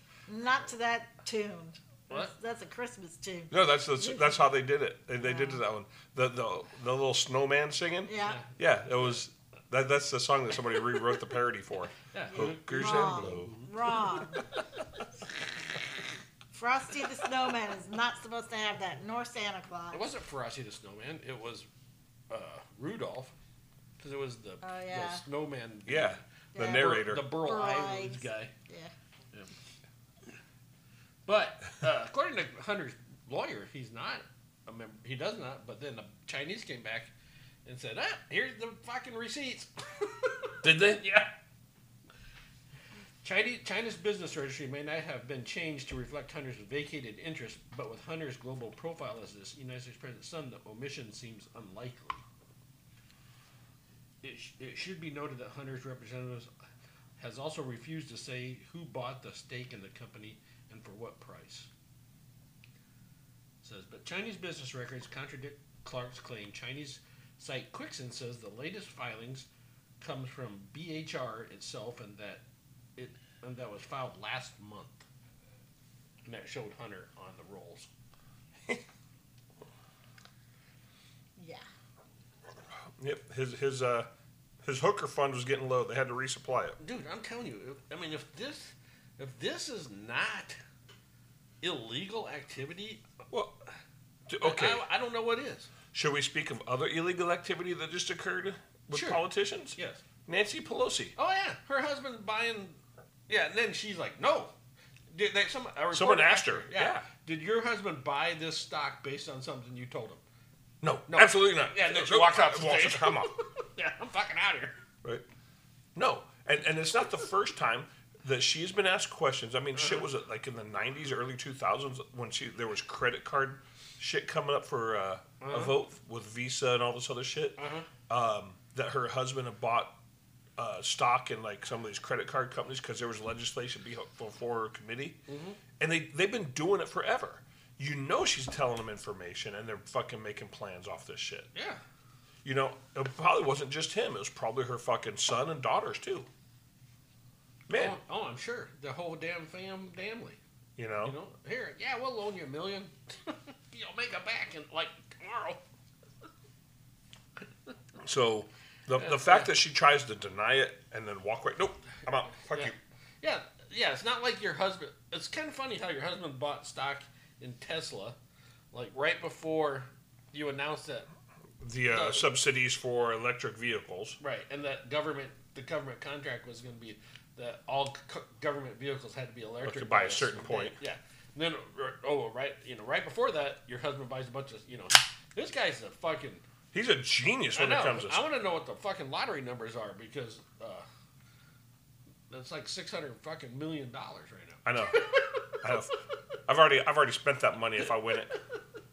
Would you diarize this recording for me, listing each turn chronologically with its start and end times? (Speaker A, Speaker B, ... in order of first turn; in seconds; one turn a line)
Speaker A: 0.3-4.4
Speaker B: 2.1-2.3
Speaker C: 3.5-13.7
Speaker A: 5.2-5.6
Speaker A: 8.1-8.4
Speaker B: 8.2-9.2
Speaker B: 12.1-14.4
Speaker A: 12.3-14.4
Speaker A: 16.5-20.0
Speaker B: 19.9-21.7
Speaker B: 22.3-23.3
Speaker B: 24.0-28.5
Speaker A: 24.6-25.2
Speaker C: 25.9-27.4
Speaker A: 26.5-28.9
Speaker B: 31.2-37.1
Speaker B: 37.6-39.7
Speaker B: 40.6-41.3
Speaker B: 43.2-52.2
Speaker B: 54.2-56.5
Speaker B: 57.2-61.7
Speaker B: 63.6-69.5
Speaker B: 70.0-72.4
Speaker B: 73.0-75.0
Speaker B: 76.2-77.9
Speaker A: 81.4-81.7
Speaker C: 83.0-84.1
Speaker C: 84.6-86.8
Speaker B: 86.8-90.6
Speaker B: 91.6-93.0
Speaker C: 93.3-93.6
Speaker C: 94.3-94.8
Speaker B: 94.4-95.7
Speaker C: 95.9-101.1
Speaker B: 98.9-99.2
Speaker B: 99.7-100.0
Speaker B: 101.2-104.5
Speaker B: 105.1-110.2
Speaker C: 105.9-107.1
Speaker C: 110.8-113.4
Speaker B: 111.1-114.8
Speaker C: 115.9-129.9
Speaker B: 119.7-120.0
Speaker B: 125.4-125.8
Speaker B: 127.6-127.9
Speaker C: 130.6-135.2
Speaker B: 135.3-135.6
Speaker C: 135.8-141.5
Speaker B: 141.5-141.8
Speaker C: 142.4-146.3
Speaker C: 147.7-148.0
Speaker B: 147.7-150.4
Speaker C: 150.8-151.2
Speaker B: 151.0-155.6
Speaker C: 158.0-162.8
Speaker B: 159.0-159.5
Speaker B: 162.5-168.2
Speaker B: 168.7-171.1
Speaker C: 171.6-174.2
Speaker B: 171.9-172.3
Speaker B: 174.2-186.4
Speaker C: 179.6-180.8
Speaker C: 186.7-188.2
Speaker B: 187.5-190.8
Speaker B: 192.3-195.6
Speaker C: 194.6-198.3